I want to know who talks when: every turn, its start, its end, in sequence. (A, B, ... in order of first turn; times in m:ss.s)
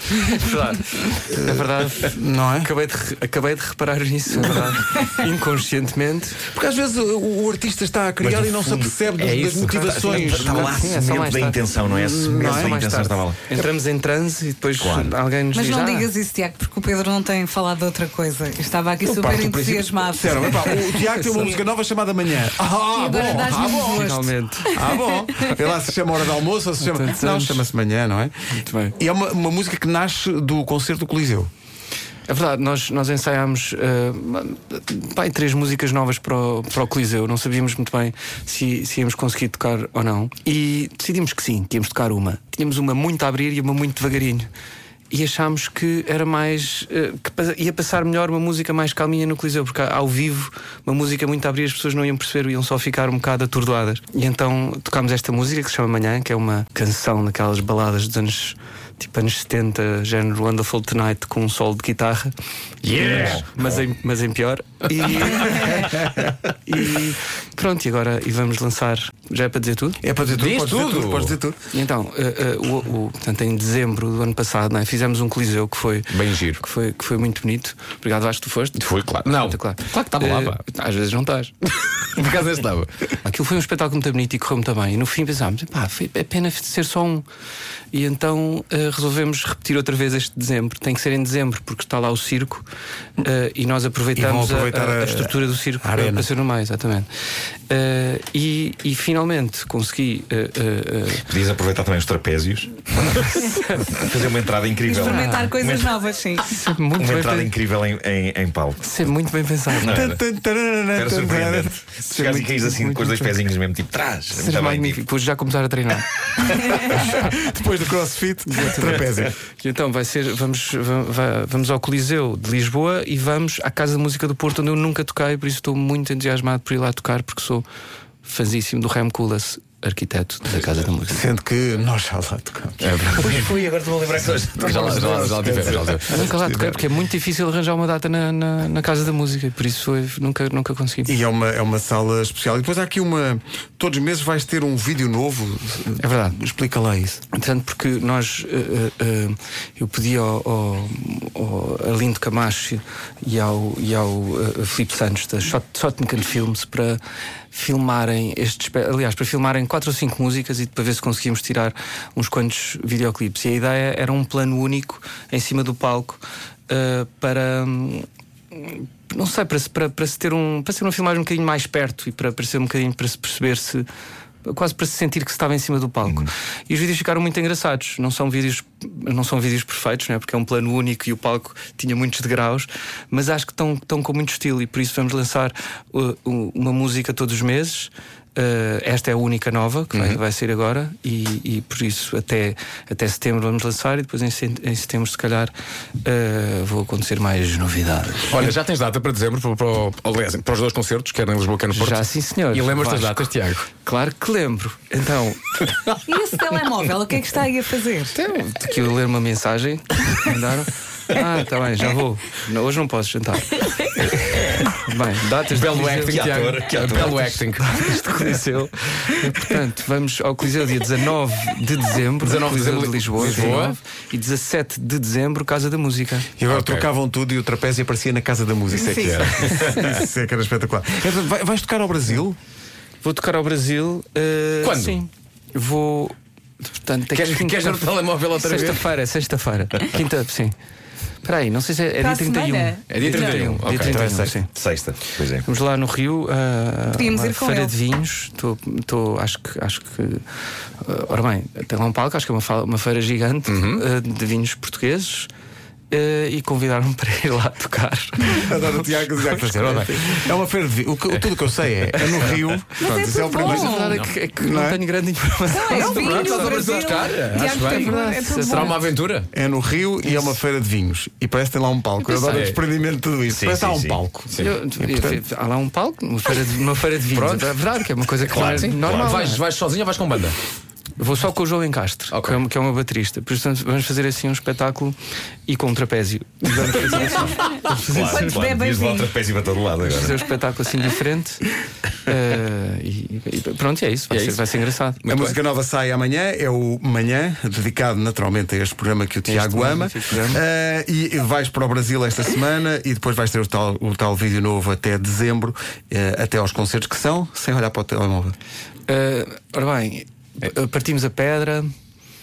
0:00.1-0:06.4 A
0:01.1-0:02.7 B
0:06.5-0:10.8 B
0:08.2-0:13.5 C
0:09.2-0:10.0 D
0:10.0-0:11.6 A
0:11.8-0:12.8 B
0:12.3-0:16.1 A
0:14.8-0:15.1 C
0:15.5-0:20.8 E
0:19.0-0:28.3 B
0:21.0-0:21.6 A
0:22.9-0:25.5 E
0:23.8-0:24.7 A
0:26.8-0:27.6 A
0:28.5-0:29.0 A
0:29.0-0:31.5 B
0:32.3-0:44.5 A
0:45.1-1:02.3 A
1:02.8-1:03.4 D
1:02.9-1:10.0 A
1:03.0-1:03.8 C
1:10.0-1:11.6 B
1:10.3-1:11.4 D
1:11.7-1:21.5 A
1:16.1-1:16.6 D
1:18.8-1:20.6 D
1:22.0-1:23.1 D
1:23.2-1:27.2 A
1:27.9-1:32.6 A
1:33.2-1:37.1 A
1:34.2-1:36.3 B
1:37.7-1:41.3 A
1:41.3-1:46.0 C
1:43.2-1:44.1 A
1:44.8-1:46.5 E
1:45.0-1:45.5 A
1:46.4-1:47.5 A
1:46.9-1:48.9 C
1:48.8-1:50.0 A
1:49.7-1:50.2 C
1:49.8-1:52.1 B
1:50.9-1:55.0 C
1:52.1-1:53.4 A
1:54.3-1:57.0 A
1:56.6-1:59.3 B
1:58.5-2:07.6 A
2:08.2-2:11.2 A
2:11.1-2:13.5 B
2:12.8-2:13.4 D
2:13.2-2:16.0 C
2:14.5-2:16.8 B
2:14.6-2:16.2 D
2:16.1-2:21.1 A
2:21.0-2:27.2 B
2:26.0-2:26.4 A
2:27.3-2:37.0 A
2:37.5-2:53.9 A
2:54.4-3:18.6 A
3:09.9-3:10.2 D
3:18.3-3:23.7 D
3:21.7-3:25.9 A
3:26.0-3:28.2 E
3:28.1-3:46.3 A
3:34.2-3:34.7 D
3:35.5-3:37.9 D
3:36.1-3:37.2 C
3:42.2-3:43.8 D
3:46.4-3:52.4 B
3:46.5-3:46.9 D
3:48.9-3:50.0 D
3:48.9-3:49.2 E
3:53.0-3:56.1 A
3:54.6-3:55.0 D
3:56.7-4:00.5 A
3:57.1-3:58.9 D
4:01.2-4:04.5 A
4:02.0-4:03.4 E
4:02.9-4:04.1 D
4:03.8-4:04.4 B
4:04.5-4:05.4 C
4:05.4-4:10.2 A
4:06.9-4:07.8 E
4:10.8-4:15.3 A
4:13.5-4:13.8 D
4:15.9-4:20.3 A
4:18.3-4:24.8 B
4:22.0-4:22.4 A
4:22.8-4:24.0 E
4:23.2-4:28.9 A
4:25.5-4:28.8 E
4:25.7-4:29.3 D
4:29.3-4:35.2 B
4:32.2-4:32.6 D
4:33.3-4:34.0 C
4:34.3-4:34.6 D
4:34.4-4:39.4 A
4:37.1-4:37.6 D
4:38.2-4:39.2 C
4:38.3-4:40.4 D
4:41.0-4:45.0 A
4:42.1-4:42.4 D
4:45.5-4:48.4 A
4:47.4-4:49.1 E
4:47.7-4:50.3 C
4:49.8-4:51.5 A
4:52.0-4:55.0 A
4:54.1-4:54.4 D
4:55.0-4:55.4 D
4:55.1-5:08.4 B
4:59.3-5:00.4 A
5:08.9-5:11.7 A